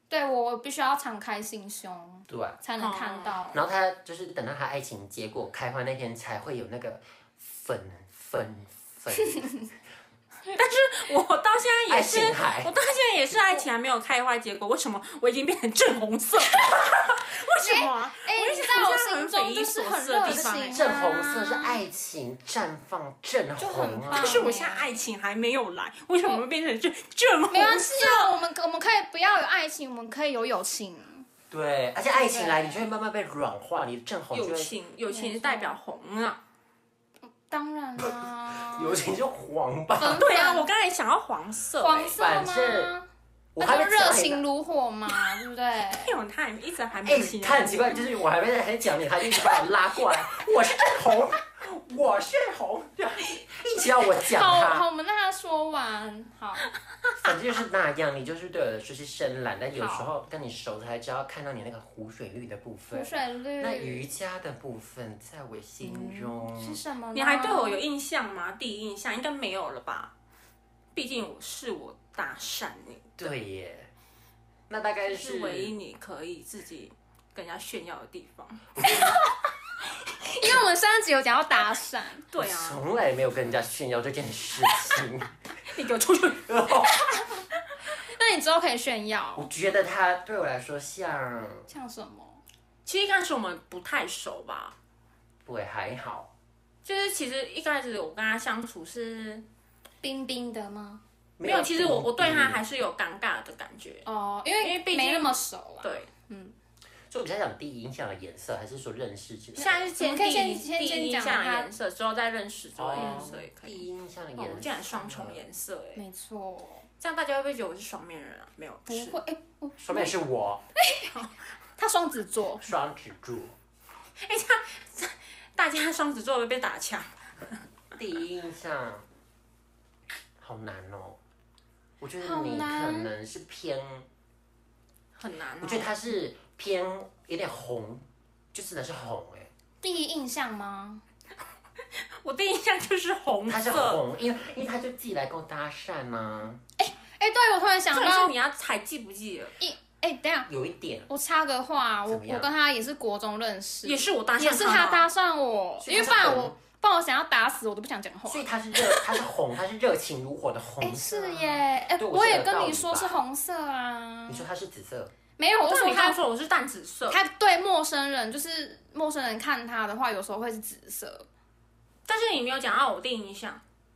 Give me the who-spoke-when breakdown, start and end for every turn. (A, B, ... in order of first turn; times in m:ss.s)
0:00.1-0:03.6 A
0:02.3-0:02.6 B
0:02.8-0:03.4 C
0:03.5-0:09.5 B
0:10.5-0:20.8 C
0:11.9-0:12.7 B
0:16.7-0:17.1 B
0:17.6-0:21.8 A
0:20.7-0:24.5 B
0:23.6-0:25.0 A
0:24.1-0:28.4 C
0:27.5-0:31.3 A
0:31.5-0:34.7 B
0:32.1-0:32.8 A
0:34.3-0:36.4 C
0:35.1-0:35.8 A
0:37.2-0:39.1 A
0:38.0-0:40.3 B
0:40.0-0:40.7 A
0:40.1-0:42.2 C
0:41.8-0:43.1 A
0:42.2-0:42.9 B
0:43.6-0:44.4 B
0:43.6-0:46.2 A
0:45.1-0:45.4 C
0:45.9-0:48.0 C
0:47.0-0:54.9 B
0:54.2-0:56.7 A
0:57.2-1:06.8 B
0:59.8-1:00.1 A
1:02.9-1:04.1 A
1:05.8-1:07.8 A
1:07.1-1:10.1 C
1:11.0-1:13.3 C
1:13.2-1:13.9 B
1:14.7-1:15.7 B
1:15.1-1:18.7 C
1:18.8-1:19.2 B
1:18.8-1:19.4 A
1:20.0-1:22.3 A
1:22.3-1:22.8 C
1:22.4-1:25.4 B
1:25.7-1:26.6 C
1:26.4-1:27.1 B
1:27.9-1:29.5 A
1:29.4-1:31.7 B
1:31.7-1:32.4 A
1:32.8-1:34.7 C
1:35.5-1:36.3 B
1:36.8-1:39.4 C
1:40.0-1:41.0 A
1:41.4-1:42.6 B
1:41.4-1:44.1 C
1:44.0-1:46.6 A
1:44.6-1:46.1 C
1:47.1-1:49.9 B
1:49.6-1:53.8 C
1:49.9-1:51.7 A
1:52.8-1:55.4 B
1:53.0-1:53.3 A
1:54.4-1:56.0 C
1:56.0-1:56.9 A
1:57.0-1:59.2 C
1:58.9-2:00.2 A
1:59.8-2:00.6 B
2:00.8-2:01.2 A
2:01.8-2:02.7 A
2:02.6-2:03.5 B
2:04.2-2:07.6 C
2:07.9-2:09.0 B
2:10.4-2:11.2 B
2:12.0-2:14.1 B
2:12.2-2:13.1 A
2:15.2-2:15.9 C
2:15.6-2:19.5 B
2:19.8-2:21.0 A
2:22.0-2:24.0 C
2:23.5-2:26.6 B
2:26.8-2:28.3 A
2:27.9-2:29.6 C
2:29.6-2:30.5 A
2:30.5-2:31.1 B
2:31.1-2:39.2 A
2:32.1-2:32.5 B
2:33.8-2:35.1 C
2:35.8-2:36.6 B
2:38.3-2:43.2 B
2:40.8-2:44.5 A
2:44.3-2:45.1 B
2:45.4-2:46.2 A
2:45.6-2:47.2 C
2:47.1-2:51.3 A
2:52.1-2:53.6 C